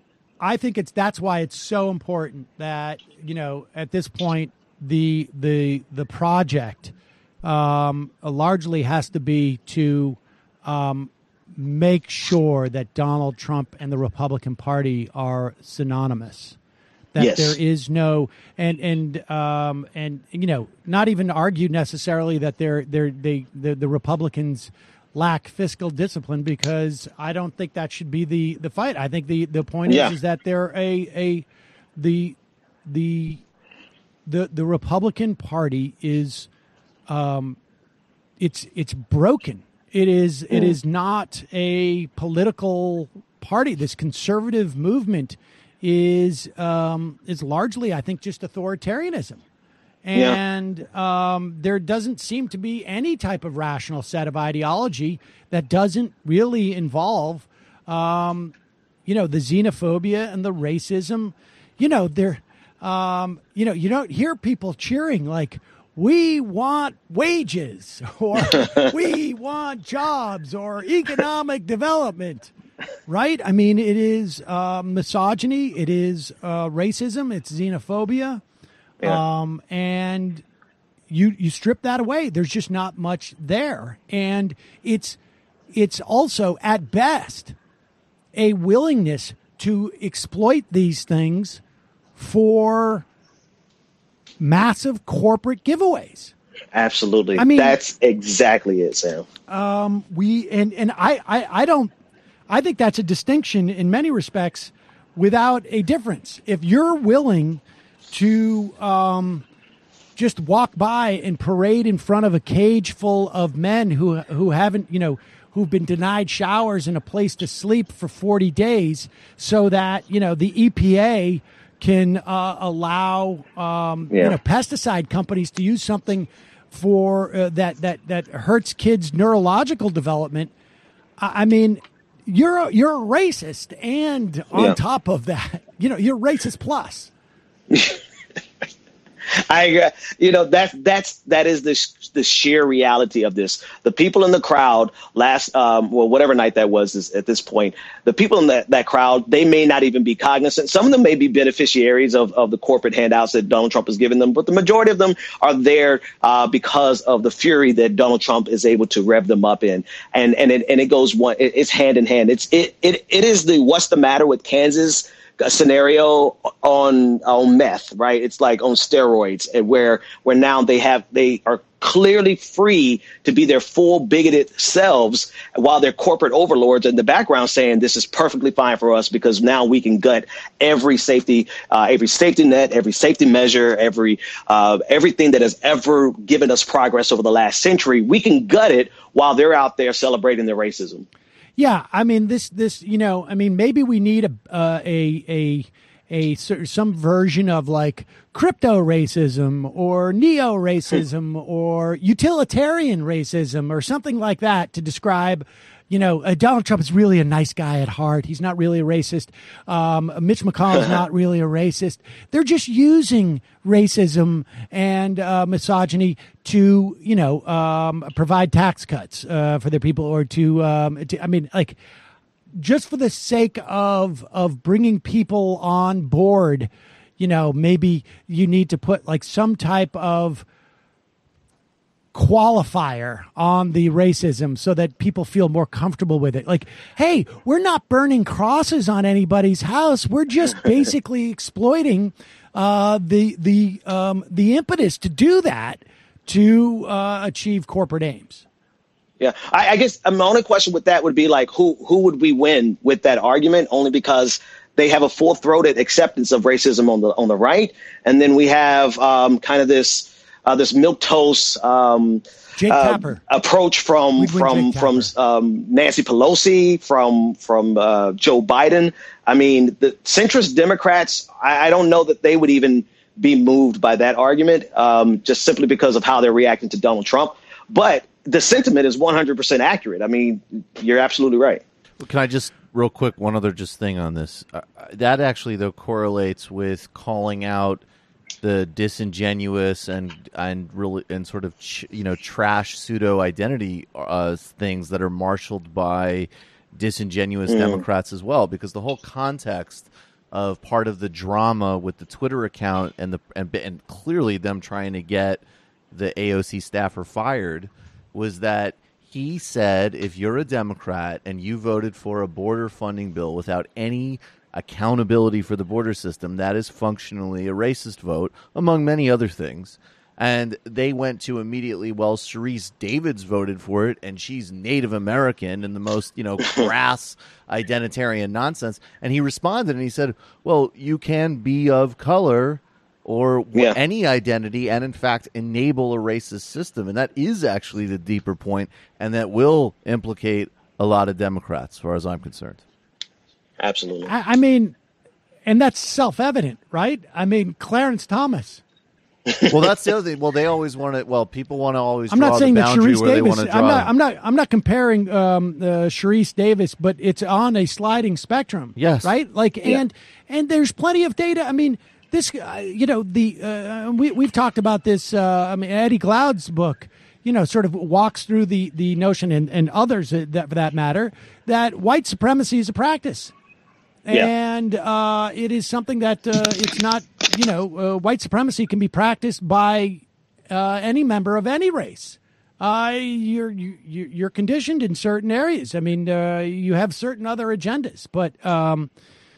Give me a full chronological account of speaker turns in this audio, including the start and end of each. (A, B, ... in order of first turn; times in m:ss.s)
0:00.4-0:16.6 A
0:17.1-0:31.4 A
0:17.2-0:17.6 B
0:29.9-0:30.2 B
0:32.0-0:33.4 A
0:34.3-0:36.5 A
0:37.1-0:37.6 A
0:38.4-0:49.4 A
0:40.5-0:40.8 B
0:50.0-0:58.5 A
0:59.1-1:12.5 A
1:08.5-1:08.8 B
1:13.1-1:18.4 A
1:19.0-1:20.4 A
1:21.1-1:25.2 A
1:25.7-1:27.6 A
1:28.4-1:31.6 A
1:32.2-1:33.1 A
1:34.4-1:36.3 A
1:36.7-1:39.3 B
1:37.4-1:37.8 A
1:39.5-1:41.9 A
1:42.5-1:49.4 A
1:50.2-2:10.5 A
2:04.1-2:04.4 B
2:11.2-2:17.1 A
2:17.7-2:18.0 B
2:19.5-3:11.1 B
3:11.6-3:41.8 A
3:42.6-3:50.4 A
3:52.1-4:08.4 A
4:09.2-4:41.6 B
4:22.6-4:23.2 A
4:24.2-4:25.1 A
4:42.0-4:47.8 C
4:48.4-5:42.6 C
4:57.5-4:57.8 B
5:43.6-5:44.1 B
5:44.0-5:44.8 A
5:45.5-5:48.6 A
5:49.3-5:49.6 B
5:49.5-5:53.9 C
5:52.1-6:13.3 A
5:58.8-5:59.1 C
6:14.0-6:28.9 A